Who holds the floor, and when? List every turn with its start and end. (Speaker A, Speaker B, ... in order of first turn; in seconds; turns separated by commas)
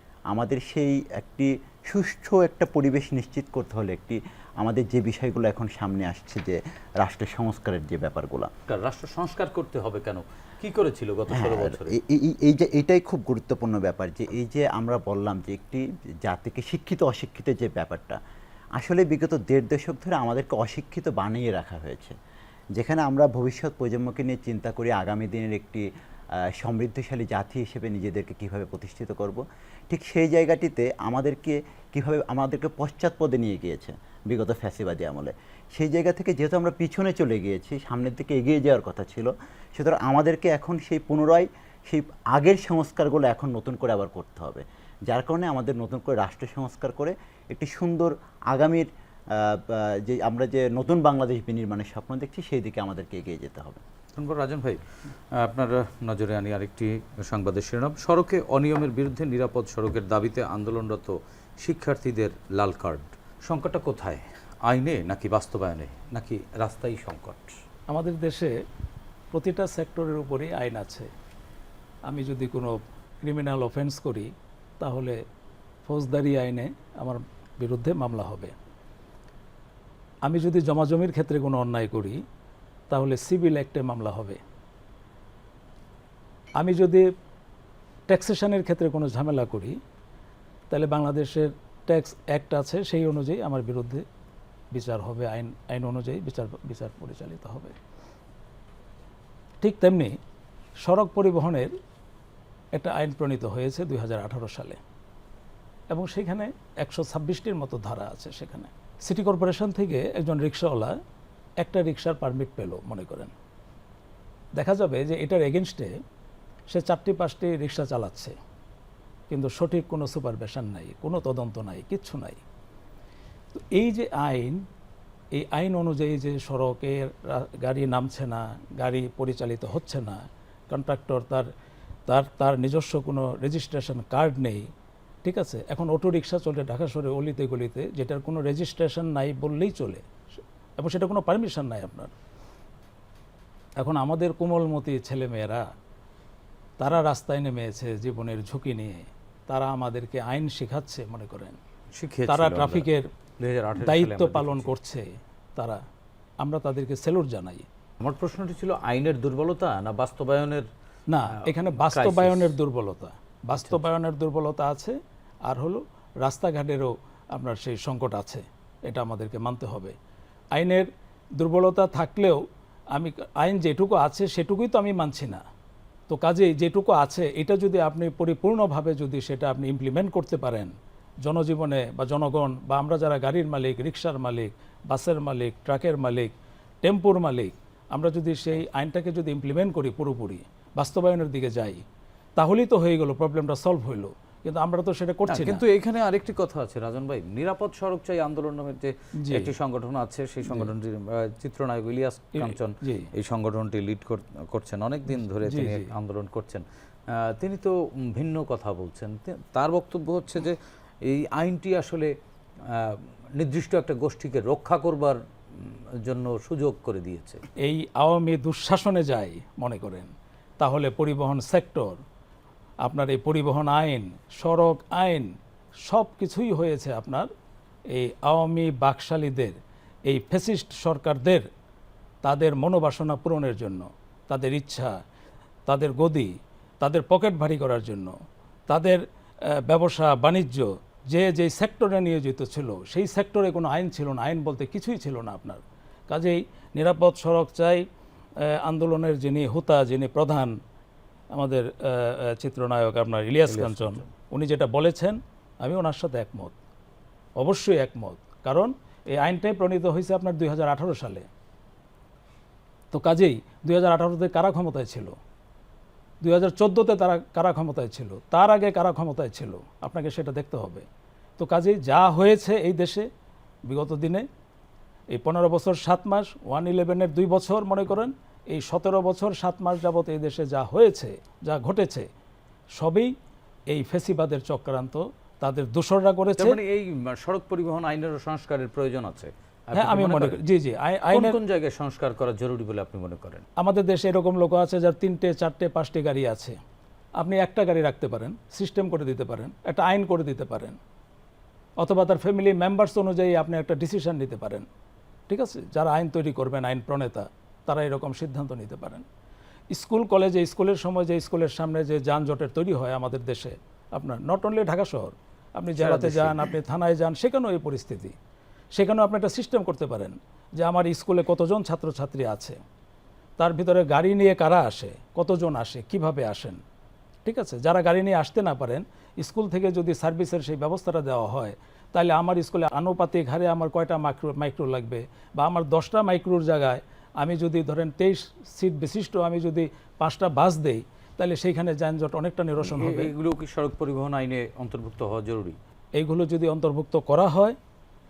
Speaker A: 0.3-8.5, Speaker B: 8.7-12.0, Speaker A: 11.3-18.2, Speaker A: 18.8-22.1, Speaker A: 22.7-25.9, Speaker A: 26.4-53.8, Speaker B: 54.1-67.6, Speaker C: 67.9-68.5, Speaker C: 69.3-71.1, Speaker C: 72.1-75.2, Speaker C: 75.8-78.5, Speaker C: 80.2-82.2, Speaker C: 82.9-84.4, Speaker C: 86.6-87.1, Speaker C: 88.1-89.8, Speaker C: 90.7-94.0, Speaker C: 94.7-97.8, Speaker C: 99.6-100.2, Speaker C: 100.8-101.7, Speaker C: 102.7-104.8, Speaker C: 105.9-111.0, Speaker C: 111.6-113.3, Speaker C: 114.5-115.9, Speaker C: 116.7-118.3, Speaker C: 119.3-122.4, Speaker C: 123.5-124.6, Speaker C: 125.3-131.5, Speaker C: 132.1-134.7, Speaker C: 135.2-140.0, Speaker C: 140.8-142.1, Speaker C: 143.8-145.7, Speaker C: 146.8-151.6, Speaker B: 151.9-154.7, Speaker C: 152.3-153.1, Speaker C: 153.8-155.8, Speaker C: 156.4-157.7, Speaker B: 158.0-160.7, Speaker C: 161.1-169.9, Speaker B: 161.4-162.5, Speaker C: 170.5-172.4, Speaker C: 172.9-175.4, Speaker C: 176.1-186.3, Speaker C: 186.8-191.8, Speaker C: 192.4-195.6, Speaker B: 195.3-212.1, Speaker C: 199.2-199.5, Speaker C: 202.3-203.1, Speaker C: 205.4-205.9, Speaker B: 212.6-217.4, Speaker C: 217.6-222.0, Speaker C: 222.8-225.3, Speaker C: 225.8-227.3, Speaker C: 227.9-231.4, Speaker C: 232.2-235.0, Speaker C: 235.7-238.2, Speaker C: 238.7-247.8, Speaker C: 248.5-250.6, Speaker C: 251.3-256.5, Speaker B: 253.5-254.1, Speaker C: 257.4-261.3, Speaker C: 262.9-265.2, Speaker C: 266.2-270.9, Speaker C: 271.4-273.1, Speaker C: 273.7-274.2, Speaker C: 275.1-282.1, Speaker C: 282.8-283.1, Speaker C: 283.7-286.6, Speaker B: 286.4-290.4, Speaker C: 289.7-291.4, Speaker B: 291.1-293.4, Speaker C: 293.6-296.6, Speaker C: 297.2-300.8, Speaker C: 301.8-304.7, Speaker C: 305.3-309.0, Speaker C: 309.7-318.1, Speaker B: 315.8-316.5, Speaker C: 318.7-322.6, Speaker C: 323.4-326.6, Speaker C: 327.2-343.1, Speaker B: 342.6-345.6, Speaker C: 346.0-347.6